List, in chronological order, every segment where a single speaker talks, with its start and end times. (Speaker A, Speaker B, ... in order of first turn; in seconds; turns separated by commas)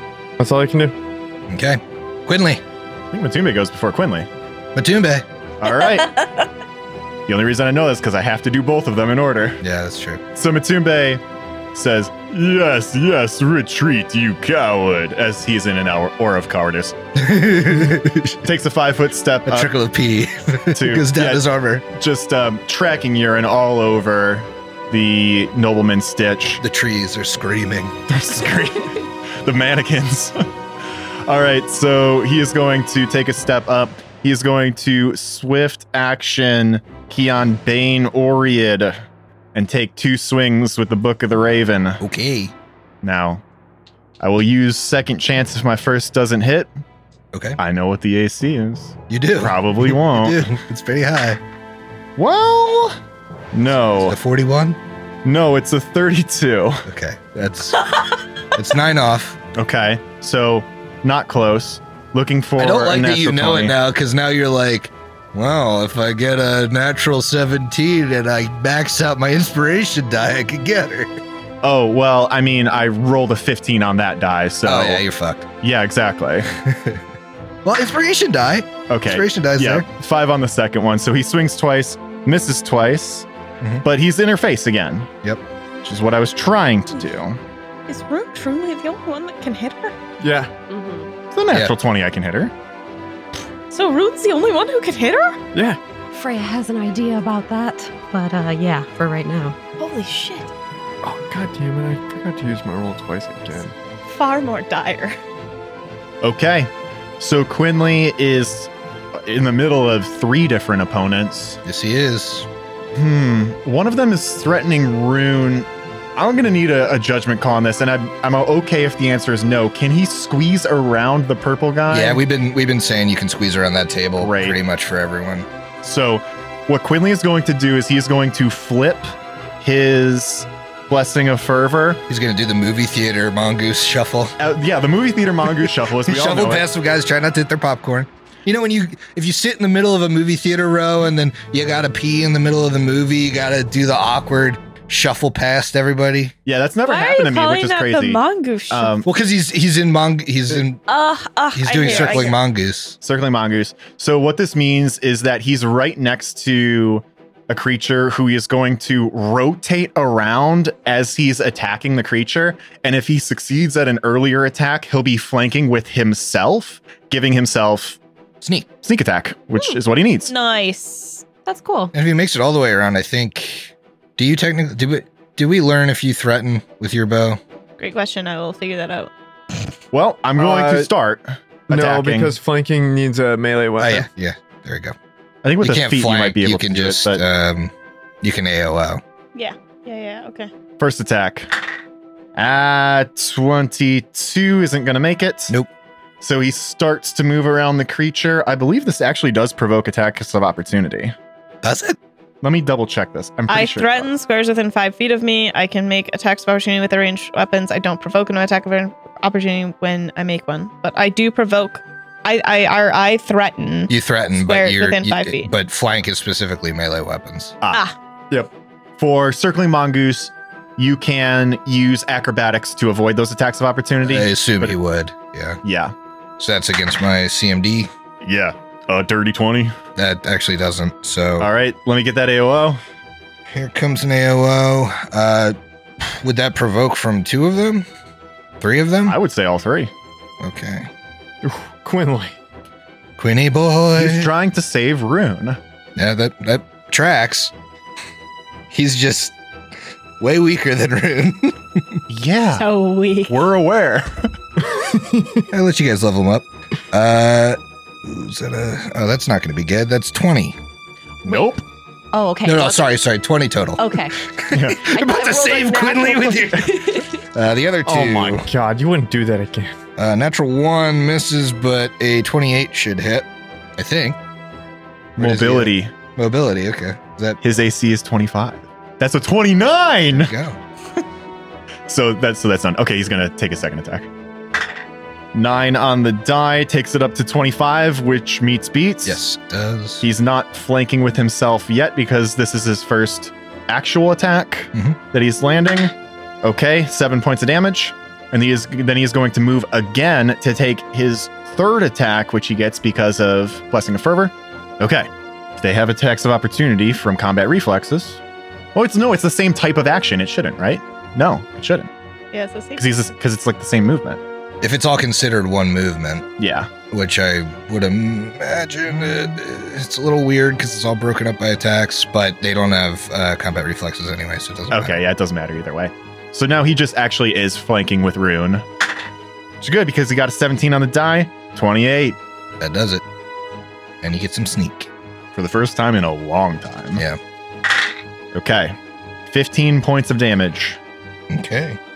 Speaker A: 0.4-0.9, Speaker B: 1.5-2.6, Speaker C: 3.1-4.3, Speaker B: 4.8-5.2, Speaker C: 5.6-6.2, Speaker C: 7.3-9.6, Speaker B: 9.6-10.2, Speaker C: 10.3-11.2, Speaker C: 11.7-17.0, Speaker B: 17.2-18.5, Speaker C: 18.4-19.7, Speaker B: 19.5-21.8, Speaker C: 20.8-26.6, Speaker B: 26.6-28.0, Speaker C: 28.1-30.5, Speaker C: 31.3-42.0, Speaker B: 42.0-42.5, Speaker C: 43.0-43.4, Speaker C: 44.2-46.7, Speaker B: 47.3-47.6, Speaker C: 47.6-50.5, Speaker B: 49.1-51.4, Speaker C: 52.2-53.0, Speaker C: 53.5-54.2, Speaker B: 53.9-54.8, Speaker C: 55.2-56.9, Speaker B: 56.9-57.9, Speaker B: 58.5-59.4, Speaker C: 59.5-63.7, Speaker B: 62.6-71.1, Speaker C: 71.6-75.0, Speaker B: 74.6-75.5, Speaker C: 75.6-76.5, Speaker B: 76.7-77.0, Speaker B: 77.7-79.9, Speaker C: 78.9-83.3, Speaker C: 83.8-85.1, Speaker C: 85.8-87.4, Speaker D: 87.9-90.0, Speaker A: 90.2-90.5, Speaker E: 90.7-91.1, Speaker C: 91.3-92.5, Speaker D: 93.7-95.4, Speaker A: 95.5-95.8, Speaker E: 96.1-99.6, Speaker D: 99.8-100.5, Speaker A: 101.0-103.7, Speaker D: 104.1-105.2, Speaker C: 106.2-111.6, Speaker B: 111.7-112.5, Speaker C: 112.9-122.2, Speaker B: 121.9-125.5, Speaker C: 124.2-124.6, Speaker C: 125.8-132.0, Speaker B: 132.1-134.3, Speaker C: 134.4-136.7, Speaker B: 136.0-146.3, Speaker C: 146.5-149.1, Speaker D: 146.8-149.0, Speaker B: 149.1-150.8, Speaker D: 150.9-152.4, Speaker B: 151.6-153.0, Speaker C: 151.8-152.3, Speaker C: 153.0-168.0, Speaker B: 168.4-168.7, Speaker C: 168.8-170.3, Speaker D: 170.3-171.2, Speaker E: 171.5-171.9, Speaker B: 171.9-177.4, Speaker D: 177.8-179.1, Speaker C: 179.9-182.3, Speaker A: 180.4-180.9, Speaker A: 181.7-184.1, Speaker B: 183.8-184.9, Speaker C: 185.4-187.2, Speaker B: 185.6-189.0, Speaker D: 189.3-190.5, Speaker C: 190.8-191.5, Speaker C: 192.4-195.6, Speaker C: 196.2-201.1, Speaker B: 201.6-202.0, Speaker C: 202.4-204.1, Speaker D: 203.5-215.5, Speaker B: 213.9-217.6, Speaker C: 217.6-224.8, Speaker B: 224.0-225.6, Speaker C: 225.6-225.9, Speaker B: 226.4-227.9, Speaker C: 228.2-229.8, Speaker B: 230.0-231.5, Speaker C: 231.4-232.8, Speaker B: 233.5-237.9, Speaker B: 238.6-239.2, Speaker C: 239.1-239.9, Speaker B: 240.4-240.9, Speaker A: 241.4-242.3, Speaker B: 243.2-244.3, Speaker C: 244.0-245.6, Speaker B: 246.0-247.5, Speaker B: 248.7-249.4, Speaker B: 250.2-252.0, Speaker C: 252.1-252.7, Speaker D: 252.6-253.4, Speaker C: 253.3-254.3, Speaker A: 255.1-255.4, Speaker B: 255.5-260.6, Speaker C: 261.2-261.6, Speaker E: 262.1-262.9, Speaker B: 262.4-268.5, Speaker E: 263.8-264.2, Speaker C: 264.5-264.9, Speaker E: 264.8-267.2, Speaker A: 267.9-269.7, Speaker B: 270.0-274.2, Speaker C: 275.2-275.9, Speaker B: 275.2-277.4, Speaker C: 277.4-280.3, Speaker B: 280.1-280.6, Speaker C: 281.9-284.1, Speaker C: 285.3-289.2, Speaker B: 289.1-290.0, Speaker C: 290.0-308.2, Speaker C: 308.8-311.9, Speaker D: 312.3-313.1, Speaker C: 312.8-314.2, Speaker B: 314.6-316.3, Speaker C: 316.4-316.7, Speaker B: 316.9-325.0, Speaker C: 324.7-328.7, Speaker C: 329.6-332.2, Speaker B: 332.6-333.0, Speaker B: 334.0-334.9, Speaker C: 335.3-337.0, Speaker C: 338.3-338.8, Speaker C: 339.3-340.8, Speaker B: 341.3-341.8